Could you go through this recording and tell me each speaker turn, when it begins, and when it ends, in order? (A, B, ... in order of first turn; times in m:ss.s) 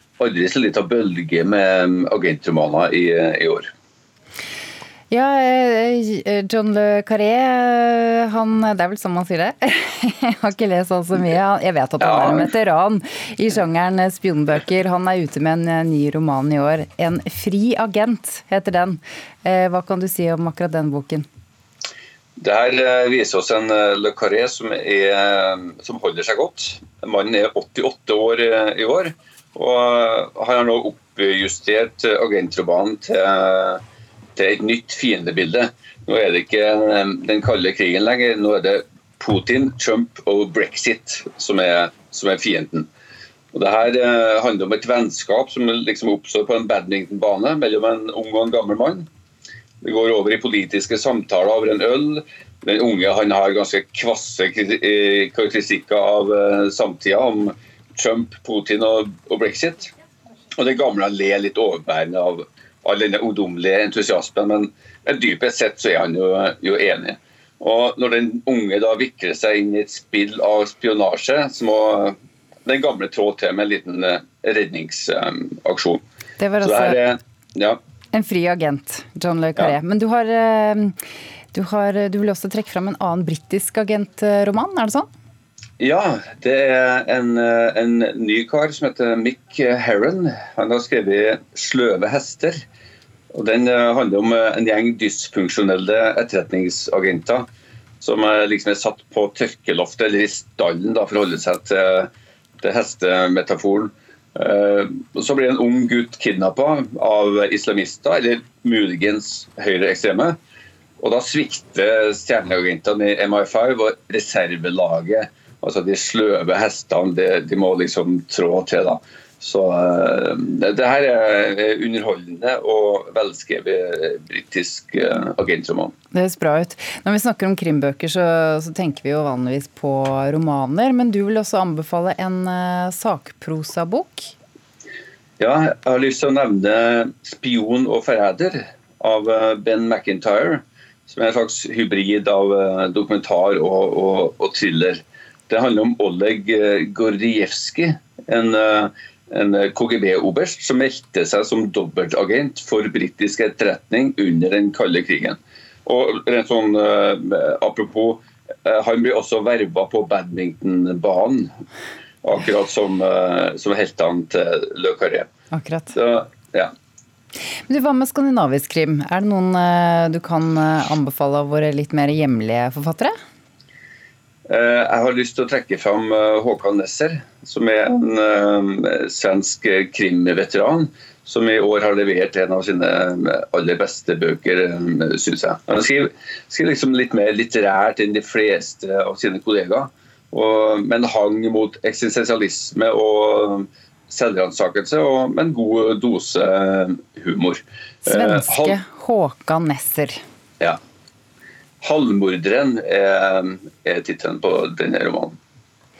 0:00.2-0:03.7 A
0:05.1-0:21.2 B
0:12.0-0:12.5 A
0:22.4-0:33.8 A
0:34.4-0:42.9 A
0:43.5-0:49.0 A
0:49.8-0:59.9 A
1:00.6-1:12.1 A
1:12.6-1:16.0 A
1:16.4-1:17.0 B
1:16.6-1:17.8 A
1:18.1-1:20.9 B
1:21.5-1:25.1 B
1:25.8-1:32.6 A
1:33.3-1:37.5 A
1:38.0-1:42.1 A
1:42.6-1:50.4 A
1:51.0-2:05.9 A
2:06.1-2:14.3 B
2:15.4-2:41.5 A
2:42.2-2:45.3 A
2:45.5-2:45.9 B
2:45.9-2:46.7 A
2:47.7-2:53.1 B
2:54.5-3:18.8 A
3:18.0-3:20.2 B
3:21.8-3:25.4 A